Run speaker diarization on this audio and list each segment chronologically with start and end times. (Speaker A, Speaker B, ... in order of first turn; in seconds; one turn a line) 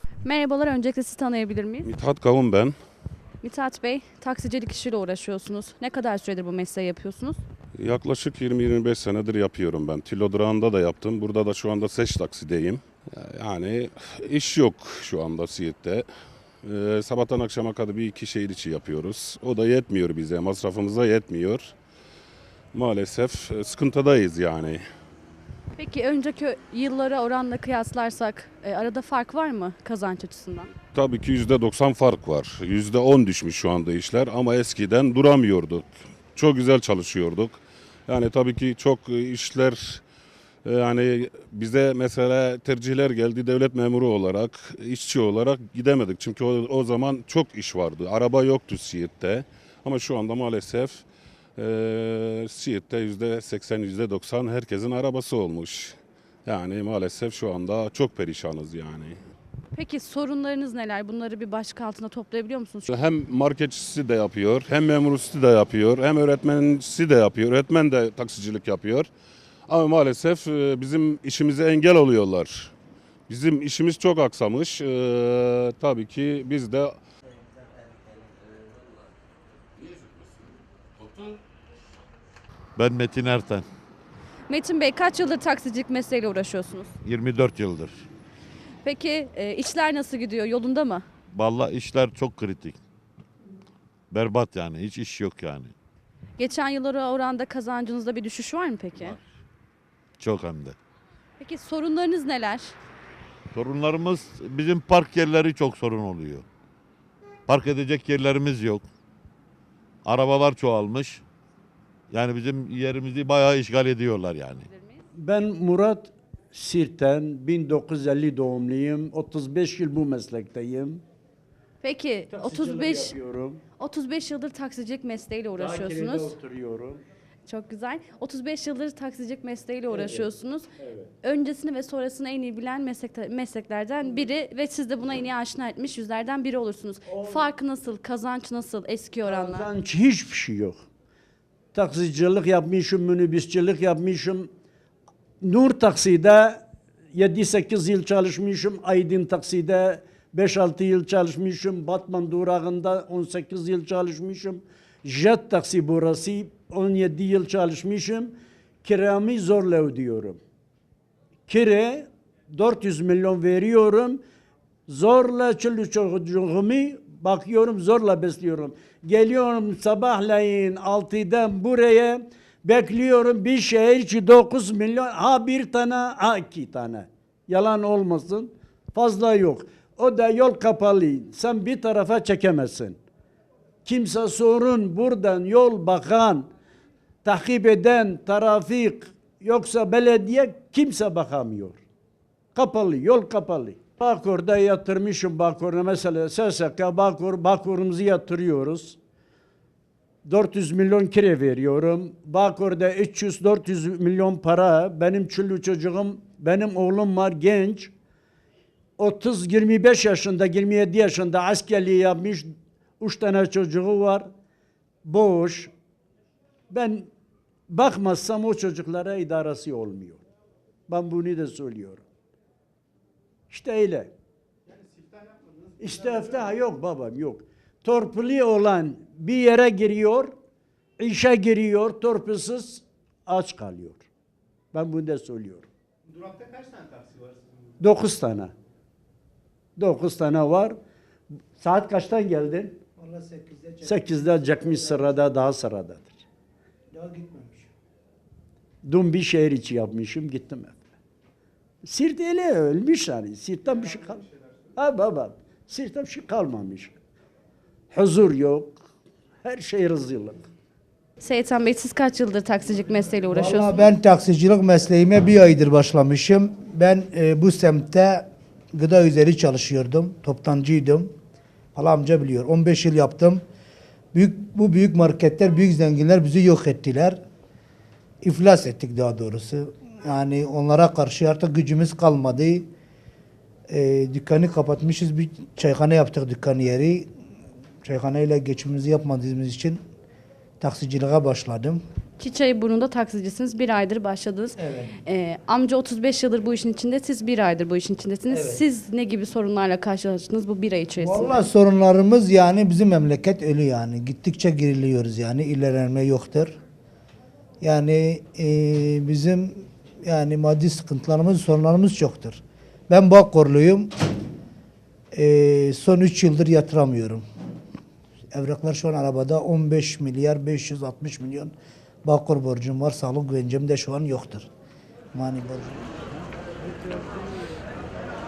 Speaker A: 0.2-1.9
Speaker B: 1.9-2.8
Speaker A: 3.4-7.4
Speaker B: 7.8-16.1
Speaker B: 16.6-21.7
Speaker B: 22.7-24.8
Speaker A: 25.8-30.7
Speaker B: 30.9-40.0
Speaker B: 40.6-51.0
Speaker B: 51.6-59.2
Speaker A: 59.7-62.9
Speaker B: 62.9-69.1
Speaker B: 69.7-72.7
Speaker B: 73.3-77.0
Speaker C: 82.8-83.7
Speaker A: 84.5-87.0
Speaker C: 87.0-88.1
Speaker A: 88.8-91.1
Speaker C: 91.3-92.8
Speaker C: 94.1-95.8
Speaker A: 96.4-99.2
Speaker C: 100.2-100.8
Speaker A: 101.4-102.8
Speaker C: 103.5-106.5
Speaker C: 107.5-108.9
Speaker C: 110.0-111.2
Speaker C: 112.1-114.7
Speaker A: 114.7-115.0
Speaker D: 115.2-121.0
Speaker A: 121.8-123.2
Speaker D: 122.3-123.6
Speaker A: 123.8-126.3
Speaker D: 125.6-127.0
Speaker A: 127.5-130.7
Speaker D: 129.9-131.1
Speaker A: 131.2-139.7
Speaker D: 137.1-137.5
Speaker D: 139.2-140.8
Speaker D: 141.7-144.5
Speaker D: 145.4-160.4
Speaker D: 161.5-164.2
Speaker D: 164.9-183.0
Speaker D: 183.8-186.5
Speaker D: 187.2-191.8
Speaker D: 192.6-199.0
Speaker D: 200.2-207.9
Speaker D: 209.0-212.5
Speaker D: 213.0-214.3
Speaker D: 215.1-215.7
Speaker D: 216.7-217.1
Speaker D: 217.7-220.2
Speaker D: 220.9-222.1
Speaker D: 223.5-224.1
Speaker D: 225.8-230.3
Speaker D: 231.0-234.1
Speaker D: 234.7-235.7
Speaker E: 236.4-236.7
Speaker D: 237.8-238.5
Speaker D: 239.8-240.8
Speaker D: 241.6-242.8
Speaker E: 243.0-245.3
Speaker D: 243.8-246.2
Speaker E: 246.9-247.7
Speaker D: 248.8-250.9
Speaker D: 251.8-257.0
Speaker D: 257.9-258.8
Speaker D: 259.4-260.5
Speaker A: 261.2-263.9
Speaker E: 263.3-271.1
Speaker E: 271.8-273.4
Speaker E: 274.1-277.2
Speaker E: 278.2-282.7
Speaker E: 283.7-287.1
Speaker E: 287.8-289.8
Speaker E: 290.6-291.8
Speaker A: 292.2-301.4
Speaker E: 294.6-294.9
Speaker E: 298.3-298.6
Speaker E: 301.0-306.6
Speaker E: 307.6-313.9
Speaker E: 315.1-317.2
Speaker E: 318.3-321.5
Speaker E: 322.1-324.5
Speaker E: 325.1-326.2
Speaker D: 326.6-327.7